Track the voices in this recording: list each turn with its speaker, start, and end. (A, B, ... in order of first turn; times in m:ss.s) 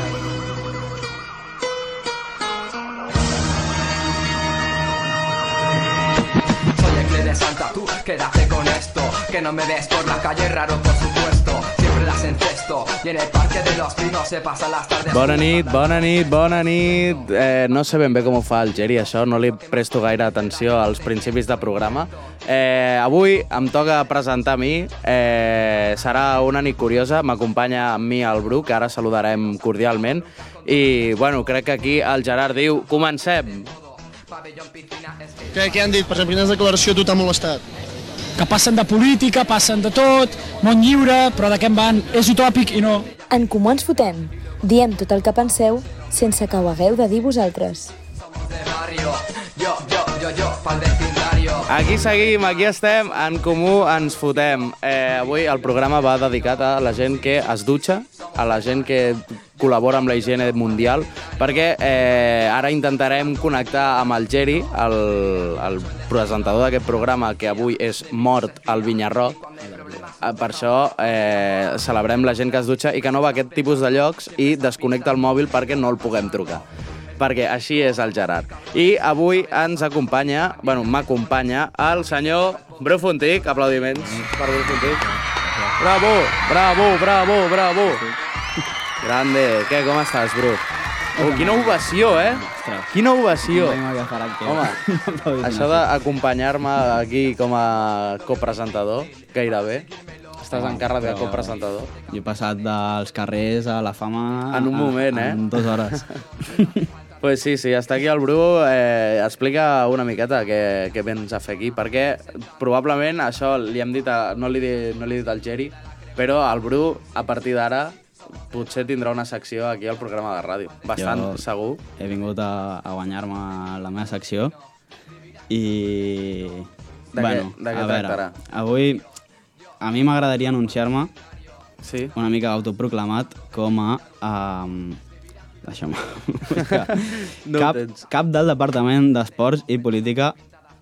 0:06.7-0:16.0 A
0:15.1-0:33.7 B
0:34.3-0:35.9 A
0:35.5-0:37.6 C
0:38.4-0:43.1 D
0:43.3-0:47.9 E
0:48.4-0:51.8 A
0:51.7-1:09.4 B
1:09.6-1:10.1 A
1:10.2-1:16.6 B
1:17.2-1:25.0 B
1:23.9-1:25.8 F
1:25.8-1:28.0 B
1:27.8-1:28.2 F
1:29.0-1:30.6 B
1:31.2-1:35.9 F
1:31.2-1:33.8 B
1:34.4-1:34.8 B
1:35.4-1:39.9 B
1:40.4-1:41.9 B
1:40.5-1:41.6 F
1:42.1-1:46.9 F
1:44.5-1:46.2 B
1:47.2-1:57.9 B
1:58.5-2:01.8 B
2:01.0-2:01.4 F
2:02.0-2:04.5 F
2:05.5-2:09.0 F
2:07.1-2:08.3 B
2:09.8-2:11.1 F
2:11.8-2:12.1 B
2:12.1-2:15.0 F
2:15.6-2:20.3 F
2:16.6-2:18.0 B